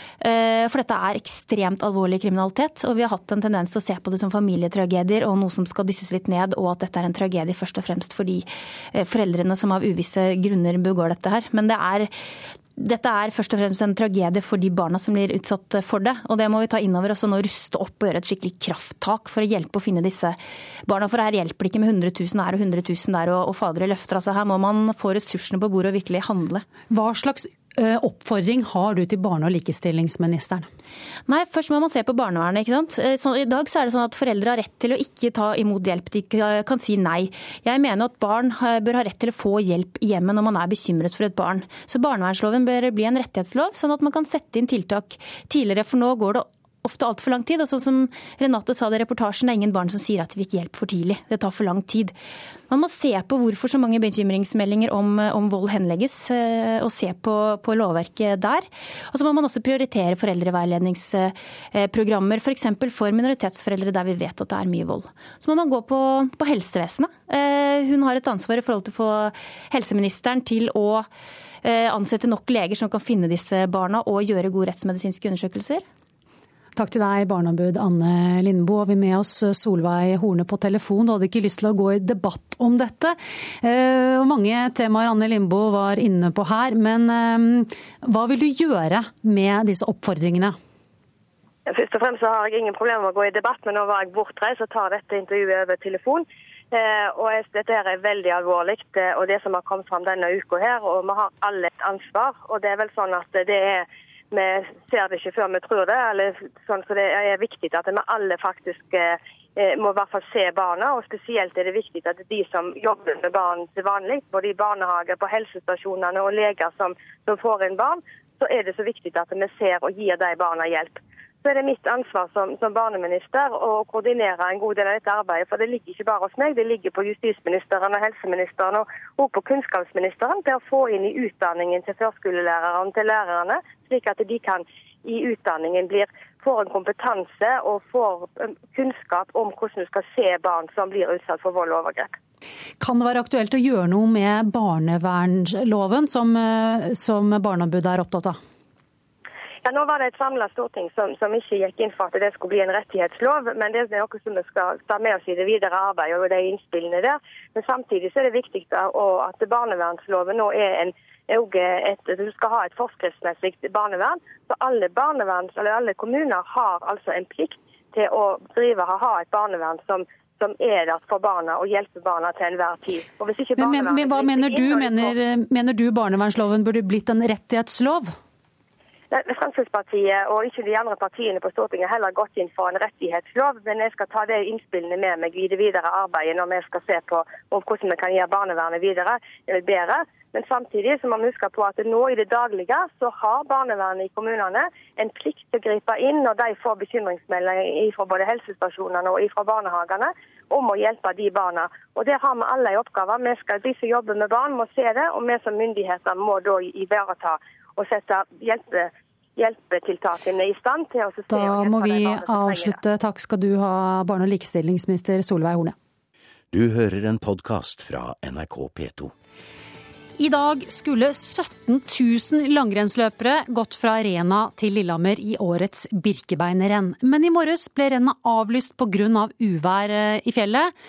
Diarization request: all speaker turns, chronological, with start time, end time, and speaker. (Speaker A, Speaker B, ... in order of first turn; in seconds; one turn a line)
Speaker A: 0.2-12.1
Speaker A: 12.8-26.6
Speaker B: 26.9-30.7
Speaker A: 31.3-52.1
Speaker A: 52.7-71.1
Speaker A: 71.6-75.8
Speaker B: 76.8-90.6
Speaker C: 91.7-142.1
Speaker B: 142.8-148.4
Speaker C: 149.7-175.2
Speaker B: 173.6-178.1
Speaker C: 179.1-212.8
Speaker B: 211.3-215.8
Speaker D: 216.5-219.1
Speaker B: 220.2-230.7